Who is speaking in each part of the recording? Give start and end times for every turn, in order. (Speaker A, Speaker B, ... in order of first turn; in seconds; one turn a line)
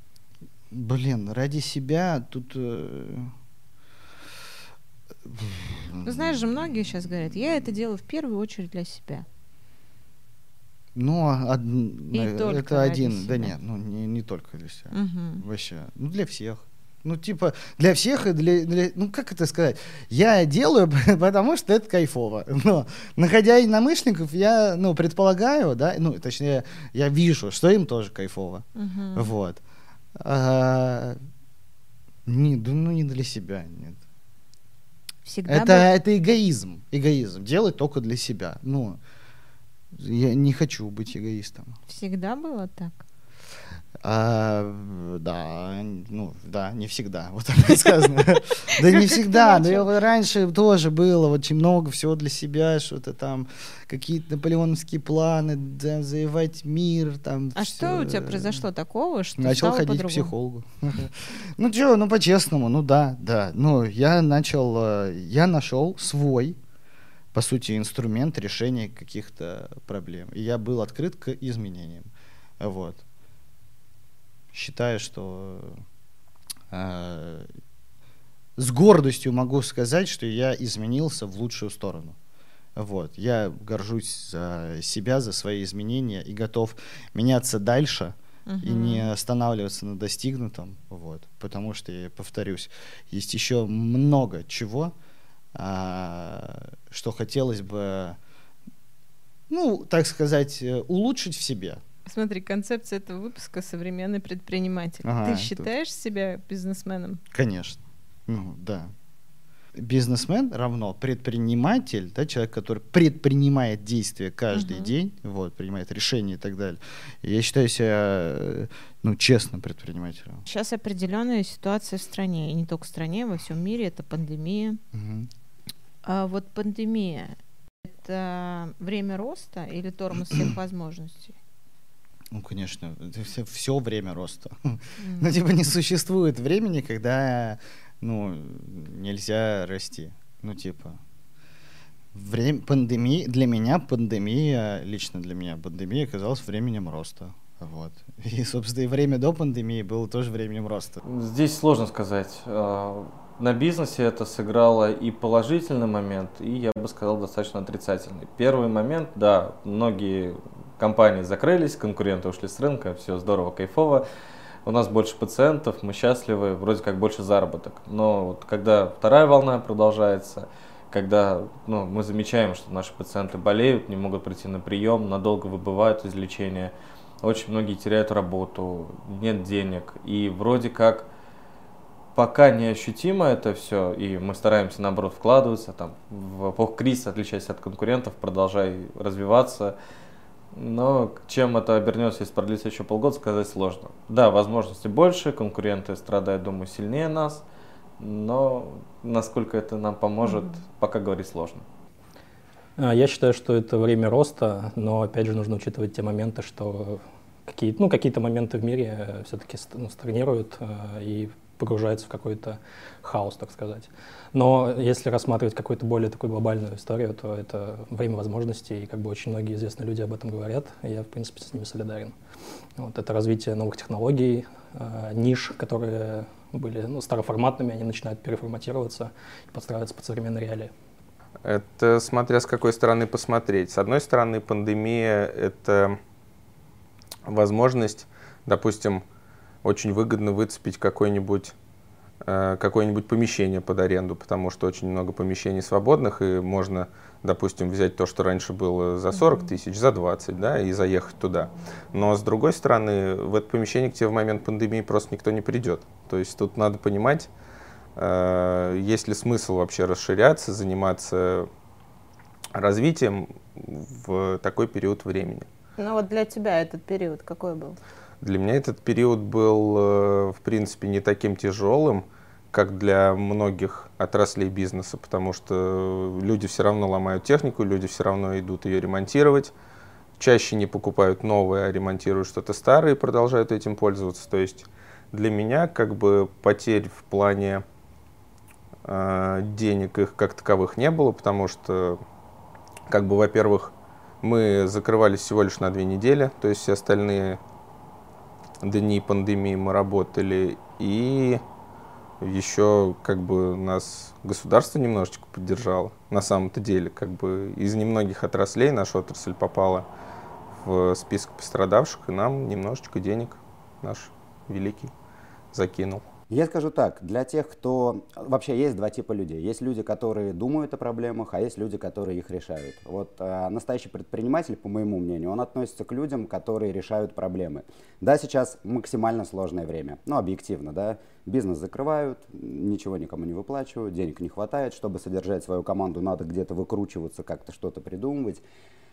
Speaker A: 0.7-3.3
Speaker A: 5.3-6.4
Speaker B: 6.0-9.3
Speaker A: 10.9-29.6
Speaker B: 12.1-13.6
Speaker B: 14.9-15.4
Speaker B: 28.8-29.3
Speaker A: 30.2-31.2
Speaker A: 32.3-34.0
Speaker B: 35.2-35.9
Speaker A: 35.5-39.0
Speaker A: 39.9-41.8
Speaker B: 41.9-43.0
Speaker A: 44.0-58.6
Speaker B: 48.8-49.9
Speaker B: 57.5-60.3
Speaker A: 59.4-66.6
Speaker A: 67.3-72.1
Speaker A: 72.6-73.0
Speaker A: 74.5-75.8
Speaker A: 76.7-77.5
Speaker A: 78.6-82.2
Speaker A: 82.8-94.9
Speaker B: 88.5-89.1
Speaker A: 95.5-98.2
Speaker A: 99.5-101.8
Speaker B: 102.1-107.2
Speaker A: 105.0-105.7
Speaker A: 107.3-108.9
Speaker A: 109.8-120.4
Speaker B: 114.5-114.9
Speaker B: 120.5-124.8
Speaker A: 124.9-125.3
Speaker B: 126.0-131.3
Speaker A: 132.3-141.0
Speaker B: 135.0-135.3
Speaker A: 142.1-151.0
Speaker C: 151.0-164.1
Speaker C: 164.7-181.1
Speaker C: 182.2-189.8
Speaker C: 190.5-197.4
Speaker C: 198.0-201.7
Speaker D: 202.8-222.2
Speaker D: 222.8-230.7
Speaker E: 231.4-236.0
Speaker E: 237.3-239.0
Speaker E: 239.6-241.6
Speaker E: 242.2-257.3
Speaker E: 258.0-261.5
Speaker E: 262.6-265.5
Speaker B: 265.8-267.8
Speaker E: 268.2-279.5
Speaker E: 280.2-287.6
Speaker E: 288.9-292.0
Speaker E: 292.9-297.4
Speaker E: 298.6-301.4
Speaker E: 302.2-309.9
Speaker E: 310.5-314.9
Speaker E: 315.5-316.0
Speaker F: 316.3-338.4